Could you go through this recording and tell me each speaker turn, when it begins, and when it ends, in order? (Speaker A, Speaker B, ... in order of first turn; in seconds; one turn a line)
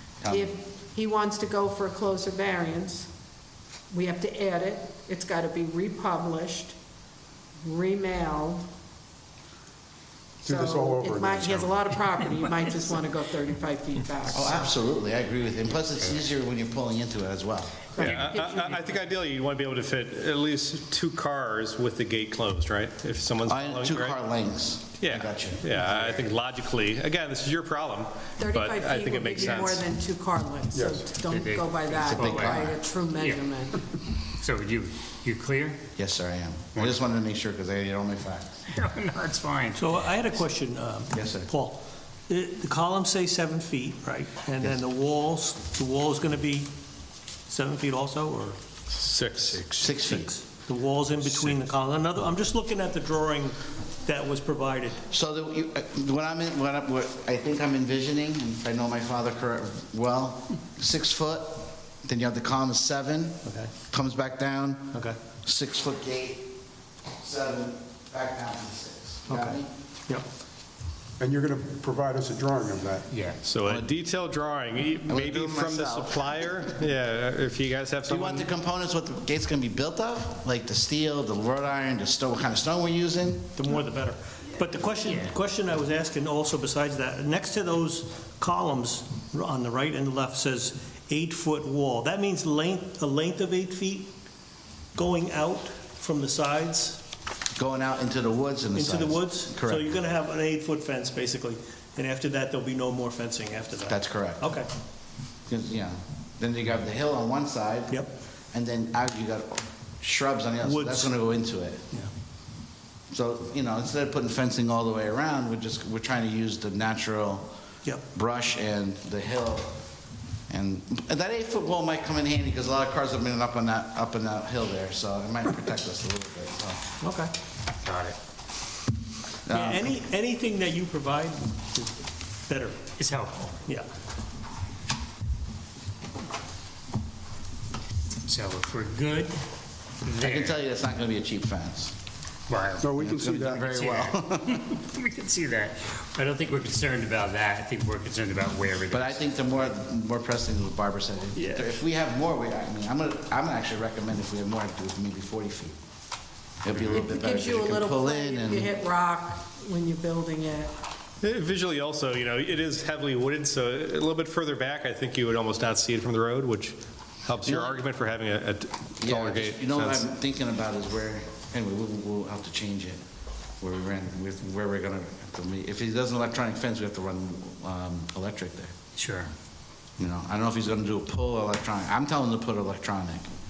Speaker A: 0.2-0.5
Speaker B: 0.3-3.1
Speaker B: 3.9-6.8
Speaker B: 7.6-8.6
Speaker C: 10.4-11.8
Speaker B: 10.4-14.7
Speaker D: 10.6-11.1
Speaker A: 14.3-17.9
Speaker E: 16.0-16.3
Speaker B: 17.9-19.1
Speaker D: 18.0-24.2
Speaker E: 18.0-18.3
Speaker A: 23.5-25.6
Speaker D: 25.0-29.8
Speaker E: 25.7-26.3
Speaker B: 28.4-33.8
Speaker E: 31.3-32.6
Speaker A: 32.0-32.8
Speaker E: 33.1-33.4
Speaker E: 34.2-35.8
Speaker A: 36.0-38.6
Speaker E: 38.7-40.4
Speaker F: 39.8-41.8
Speaker A: 41.1-41.5
Speaker F: 42.3-46.7
Speaker F: 47.5-48.6
Speaker D: 48.9-49.9
Speaker A: 49.8-50.3
Speaker F: 49.9-53.5
Speaker F: 54.1-55.0
Speaker A: 55.1-66.5
Speaker A: 67.2-69.7
Speaker F: 69.3-70.2
Speaker C: 71.2-73.0
Speaker E: 73.1-73.4
Speaker D: 73.4-78.5
Speaker A: 75.1-76.7
Speaker A: 78.1-83.5
Speaker F: 83.8-94.1
Speaker E: 85.0-85.4
Speaker F: 95.0-97.0
Speaker A: 97.5-99.9
Speaker F: 98.8-104.7
Speaker A: 103.9-104.5
Speaker A: 105.5-108.0
Speaker A: 108.5-111.8
Speaker F: 110.6-111.1
Speaker A: 113.1-117.5
Speaker A: 118.1-119.8
Speaker A: 120.5-126.8
Speaker F: 127.0-127.3
Speaker E: 127.8-128.2
Speaker A: 129.5-130.0
Speaker F: 129.5-132.8
Speaker E: 133.0-133.6
Speaker E: 138.2-139.3
Speaker E: 140.0-140.6
Speaker A: 140.2-141.9
Speaker E: 142.5-149.5
Speaker C: 142.8-143.6
Speaker A: 143.0-144.6
Speaker A: 148.9-155.8
Speaker E: 151.4-151.8
Speaker A: 156.6-158.7
Speaker B: 156.9-160.7
Speaker D: 161.2-170.1
Speaker A: 167.4-167.8
Speaker A: 169.0-173.0
Speaker A: 173.6-178.7
Speaker E: 179.0-179.3
Speaker A: 180.0-183.3